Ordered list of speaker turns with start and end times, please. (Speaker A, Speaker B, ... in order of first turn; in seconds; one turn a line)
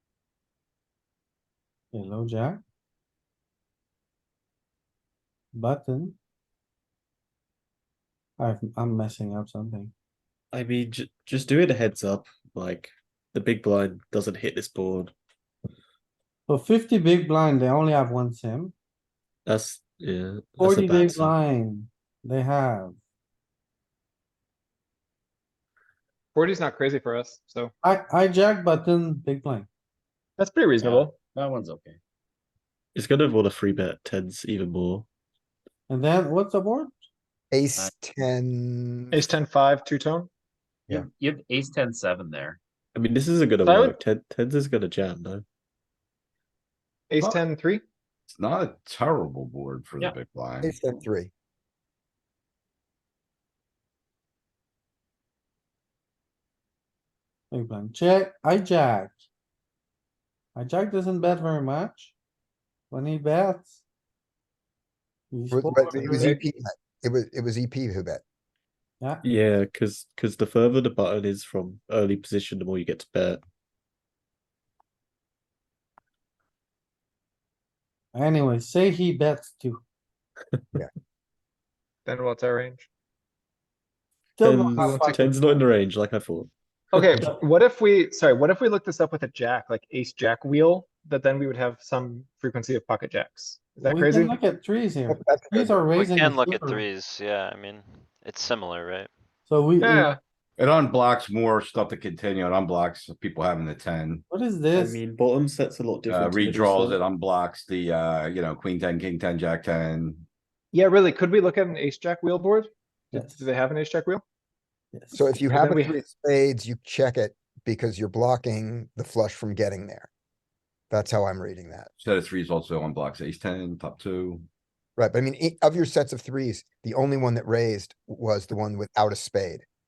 Speaker A: 1.9-2.6
Speaker A: 5.5-6.2
Speaker A: 8.4-9.9
Speaker B: 10.5-15.1
Speaker A: 16.5-18.7
Speaker B: 19.5-21.3
Speaker A: 20.6-23.0
Speaker C: 26.4-27.7
Speaker A: 27.8-29.7
Speaker C: 30.4-31.2
Speaker D: 30.8-32.0
Speaker B: 33.0-35.1
Speaker A: 35.9-36.9
Speaker E: 37.5-39.2
Speaker C: 39.1-40.3
Speaker D: 40.9-42.6
Speaker B: 43.0-45.4
Speaker C: 43.6-44.0
Speaker C: 47.1-47.8
Speaker F: 48.3-50.7
Speaker E: 50.6-51.3
Speaker A: 57.5-59.2
Speaker A: 60.5-62.1
Speaker A: 62.9-63.8
Speaker A: 65.3-66.3
Speaker E: 65.5-68.2
Speaker C: 65.9-66.4
Speaker B: 69.2-73.4
Speaker A: 78.1-79.8
Speaker C: 82.1-82.9
Speaker A: 84.4-85.3
Speaker B: 84.4-87.3
Speaker C: 84.8-85.3
Speaker C: 86.9-94.4
Speaker A: 93.8-96.8
Speaker E: 95.1-95.8
Speaker G: 96.0-99.1
Speaker A: 99.5-100.1
Speaker C: 99.8-100.2
Speaker F: 100.6-104.2
Speaker A: 104.3-105.0
Speaker B: 104.7-107.0
Speaker F: 106.1-110.2
Speaker C: 110.7-114.2
Speaker A: 113.2-113.4
Speaker E: 115.1-120.1
Speaker C: 115.5-116.0
Speaker E: 120.9-121.9
Speaker F: 122.0-124.5
Speaker E: 125.0-129.7